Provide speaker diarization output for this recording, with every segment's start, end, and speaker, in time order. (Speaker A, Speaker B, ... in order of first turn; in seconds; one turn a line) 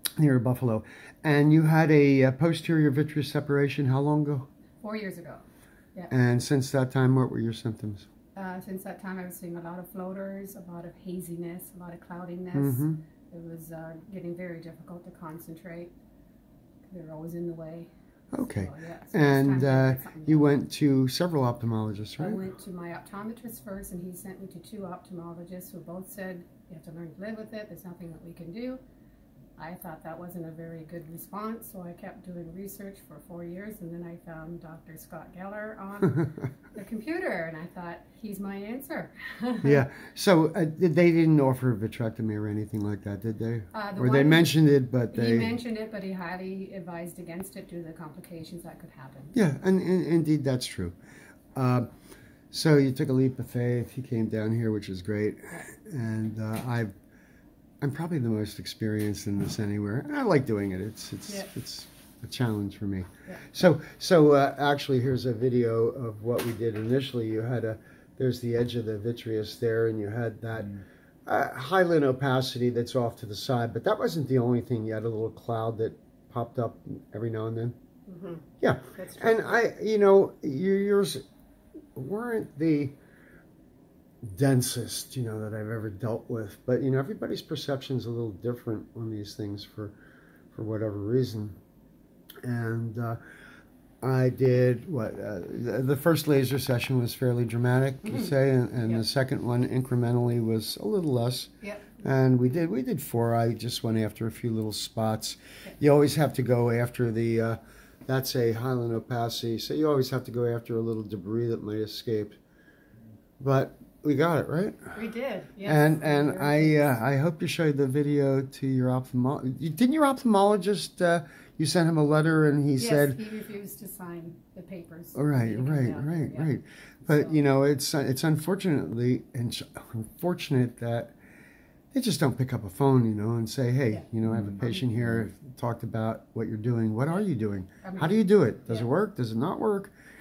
Speaker A: 0.2-4.5
Speaker B: 4.8-6.1
Speaker A: 6.1-8.1
Speaker B: 8.3-15.9
Speaker A: 12.5-13.0
Speaker B: 16.9-20.5
Speaker A: 18.3-22.5
Speaker B: 22.2-28.8
Speaker B: 29.6-39.8
Speaker A: 39.6-45.5
Speaker B: 43.7-44.5
Speaker B: 45.1-49.3
Speaker A: 49.3-50.9
Speaker A: 51.5-51.9
Speaker A: 52.5-56.9
Speaker A: 57.8-77.8
Speaker B: 78.1-79.6
Speaker A: 78.6-81.2
Speaker A: 81.9-82.9
Speaker A: 84.2-89.9
Speaker A: 90.5-91.6
Speaker A: 92.4-93.2
Speaker A: 94.0-112.4
Speaker B: 101.6-101.9
Speaker A: 113.4-115.0
Speaker B: 114.9-116.8
Speaker A: 115.6-123.2
Speaker B: 122.8-126.5
Speaker A: 125.1-131.1
Speaker B: 127.0-127.4
Speaker A: 131.9-139.9
Speaker B: 137.8-138.9